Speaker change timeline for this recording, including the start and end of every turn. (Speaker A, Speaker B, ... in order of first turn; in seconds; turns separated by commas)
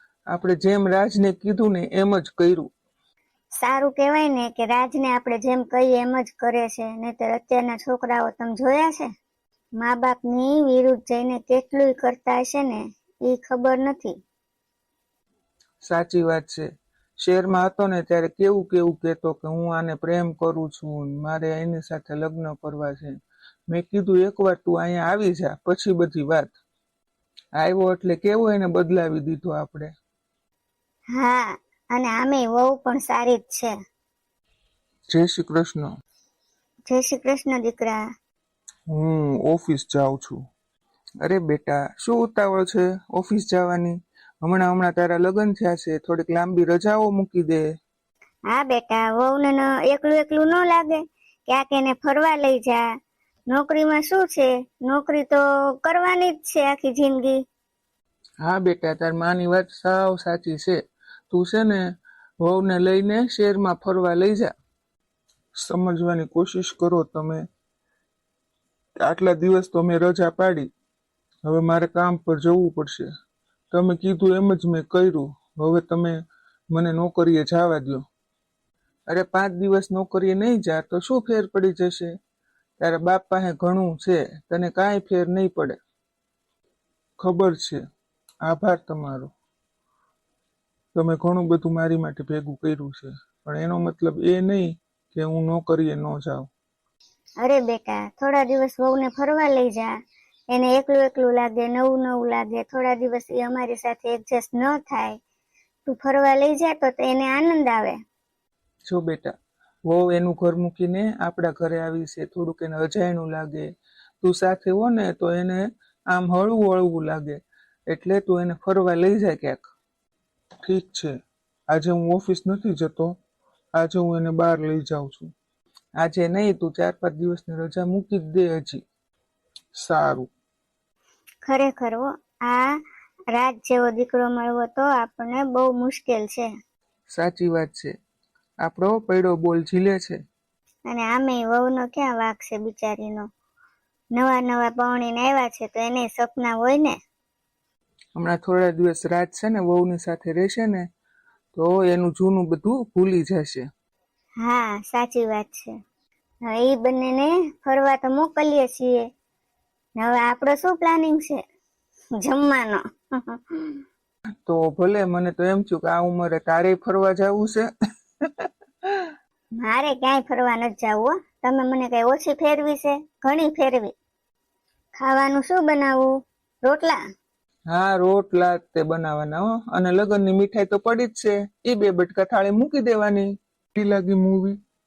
Speaker A: 0.3-2.7, Speaker B: 3.6-9.1, Speaker B: 9.8-14.2, Speaker A: 15.8-16.7, Speaker A: 17.2-23.1, Speaker A: 23.7-26.5, Speaker A: 27.6-29.9, Speaker B: 31.1-33.7, Speaker A: 35.1-35.9, Speaker B: 36.9-38.0, Speaker A: 38.9-40.4, Speaker A: 41.2-47.6, Speaker B: 48.5-52.8, Speaker B: 53.5-57.4, Speaker A: 58.4-60.8, Speaker A: 61.3-61.8, Speaker A: 62.4-64.5, Speaker A: 65.6-67.4, Speaker A: 69.0-70.7, Speaker A: 71.5-73.1, Speaker A: 73.7-76.2, Speaker A: 76.7-78.0, Speaker A: 79.1-82.1, Speaker A: 82.8-85.8, Speaker A: 87.2-87.8, Speaker A: 88.5-89.3, Speaker A: 91.0-96.5, Speaker B: 97.4-99.9, Speaker B: 100.5-105.2, Speaker B: 105.9-108.0, Speaker A: 108.9-109.3, Speaker A: 109.9-113.7, Speaker A: 114.2-119.6, Speaker A: 120.6-121.2, Speaker A: 121.7-123.2, Speaker A: 123.8-125.3, Speaker A: 126.0-128.8, Speaker A: 129.8-130.3, Speaker B: 131.4-132.8, Speaker B: 133.3-136.5, Speaker A: 137.1-137.9, Speaker A: 138.6-140.2, Speaker B: 140.9-143.3, Speaker B: 144.2-147.0, Speaker A: 148.2-150.9, Speaker A: 151.6-153.7, Speaker B: 154.4-155.7, Speaker B: 156.5-159.0, Speaker B: 160.0-161.4, Speaker B: 162.2-163.8, Speaker A: 164.5-167.7, Speaker B: 169.6-173.9, Speaker B: 175.0-176.1, Speaker B: 176.6-177.0, Speaker A: 177.7-184.6